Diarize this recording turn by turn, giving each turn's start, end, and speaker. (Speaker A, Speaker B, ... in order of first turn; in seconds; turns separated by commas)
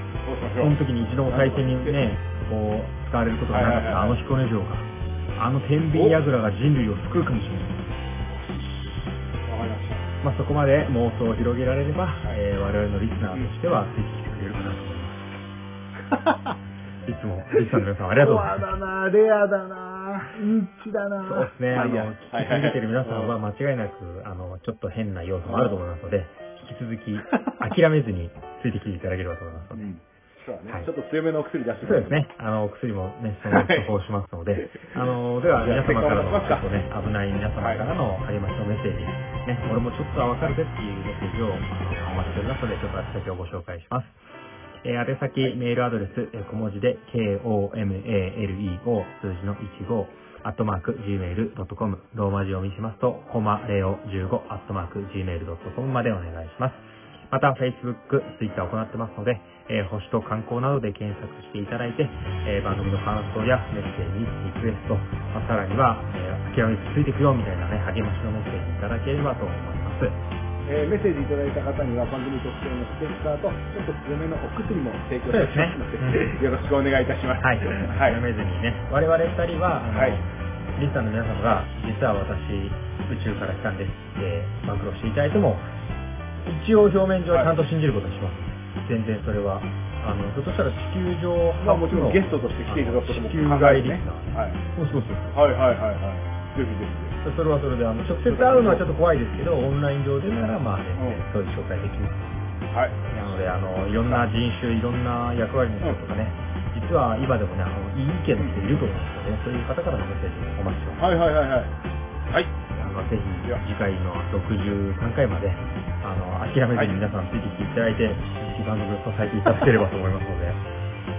Speaker A: 0.2-2.0, Speaker B: 0.6-7.8, Speaker A: 3.5-4.2, Speaker A: 5.9-6.2, Speaker A: 8.3-10.1, Speaker B: 10.2-15.3, Speaker A: 16.0-16.6, Speaker B: 17.0-18.7, Speaker A: 17.5-23.4, Speaker B: 21.2-29.9, Speaker A: 25.4-25.8, Speaker A: 27.3-27.6, Speaker A: 29.7-32.2, Speaker B: 31.8-44.2, Speaker A: 33.4-33.9, Speaker A: 35.6-36.8, Speaker A: 37.6-37.9, Speaker B: 44.8-70.2, Speaker A: 70.7-78.2, Speaker B: 75.3-76.3, Speaker B: 77.4-85.7, Speaker A: 79.9-80.2, Speaker B: 86.4-95.3, Speaker A: 91.6-94.6, Speaker A: 95.3-97.2, Speaker B: 97.2-102.6, Speaker A: 98.2-98.8, Speaker A: 101.0-101.2, Speaker A: 102.7-104.3, Speaker B: 103.1-111.0, Speaker A: 108.4-108.8, Speaker A: 111.0-111.7, Speaker A: 112.3-112.5, Speaker B: 112.7-120.6